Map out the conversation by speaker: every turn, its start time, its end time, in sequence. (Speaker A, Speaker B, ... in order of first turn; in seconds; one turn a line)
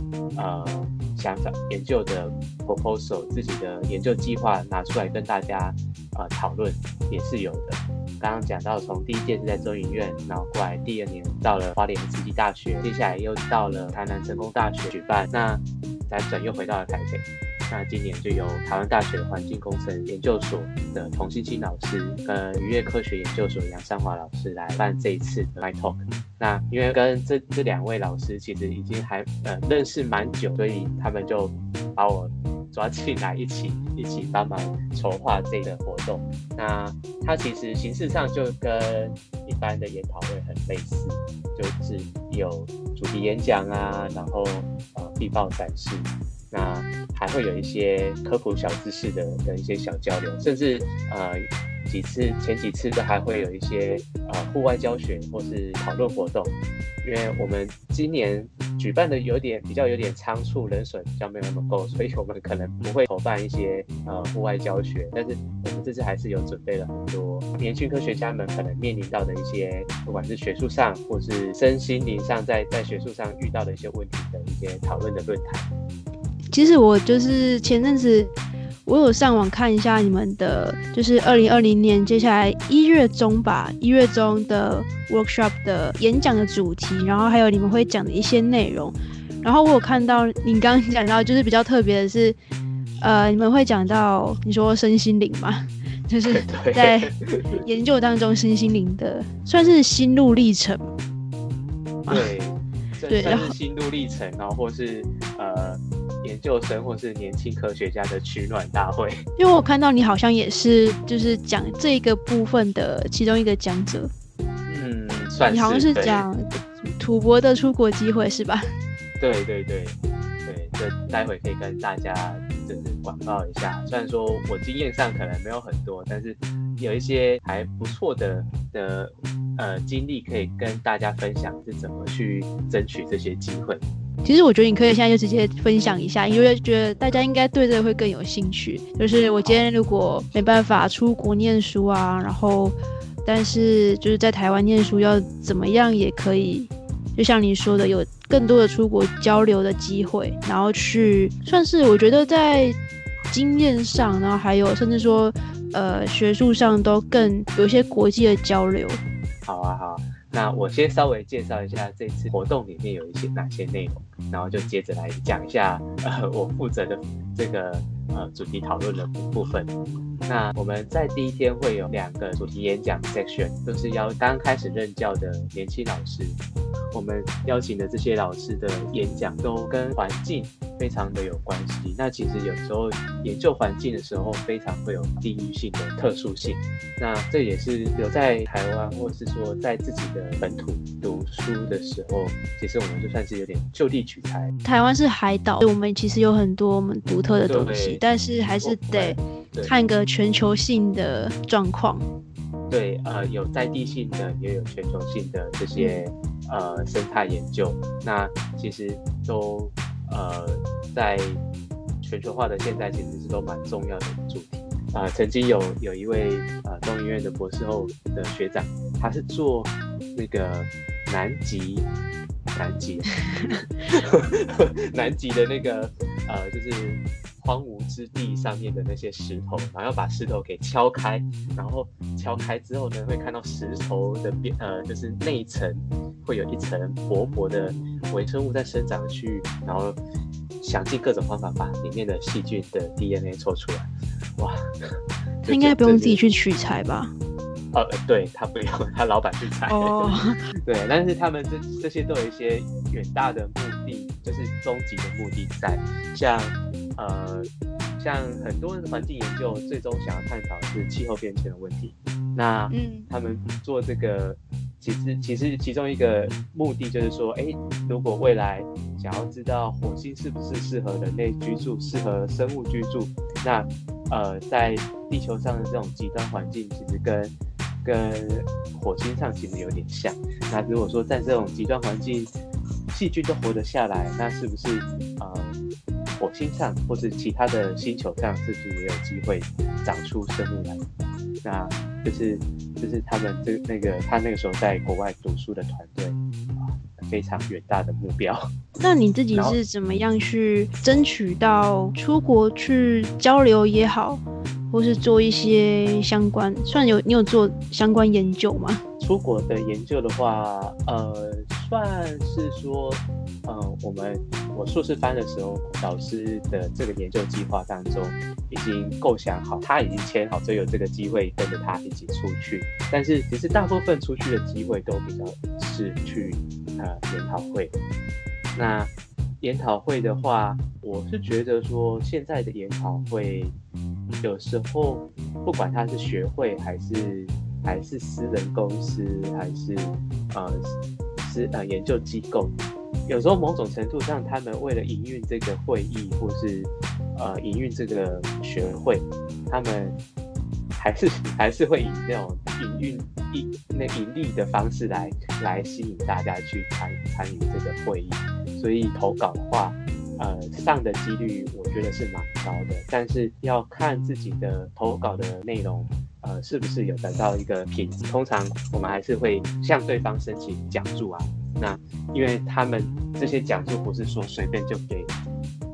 Speaker A: 0.4-75.7
Speaker B: 76.5-78.3
Speaker B: 78.9-92.4
Speaker B: 93.0-100.9
Speaker A: 96.3-97.6
Speaker A: 102.1-109.2
Speaker B: 103.1-103.5
Speaker B: 109.4-114.1
Speaker A: 114.7-116.2
Speaker B: 115.5-118.7
Speaker A: 119.2-133.8
Speaker B: 134.2-152.8
Speaker B: 153.3-159.0
Speaker A: 159.4-169.7
Speaker A: 170.3-176.4
Speaker A: 176.9-194.5
Speaker B: 194.6-202.1
Speaker A: 197.4-198.0
Speaker A: 198.6-199.8
Speaker A: 202.7-211.4
Speaker B: 205.8-206.0
Speaker A: 212.0-221.9
Speaker A: 222.6-240.0
Speaker A: 240.6-244.9
Speaker B: 245.4-247.1
Speaker A: 245.4-246.2
Speaker A: 247.7-282.3
Speaker B: 249.7-250.4
Speaker B: 262.7-263.1
Speaker A: 282.9-285.6
Speaker A: 286.2-290.8
Speaker A: 291.4-298.5
Speaker B: 298.8-308.8
Speaker A: 299.3-299.6
Speaker A: 309.0-327.7
Speaker A: 328.6-333.6
Speaker A: 334.2-342.6
Speaker A: 343.1-350.0
Speaker A: 350.8-375.1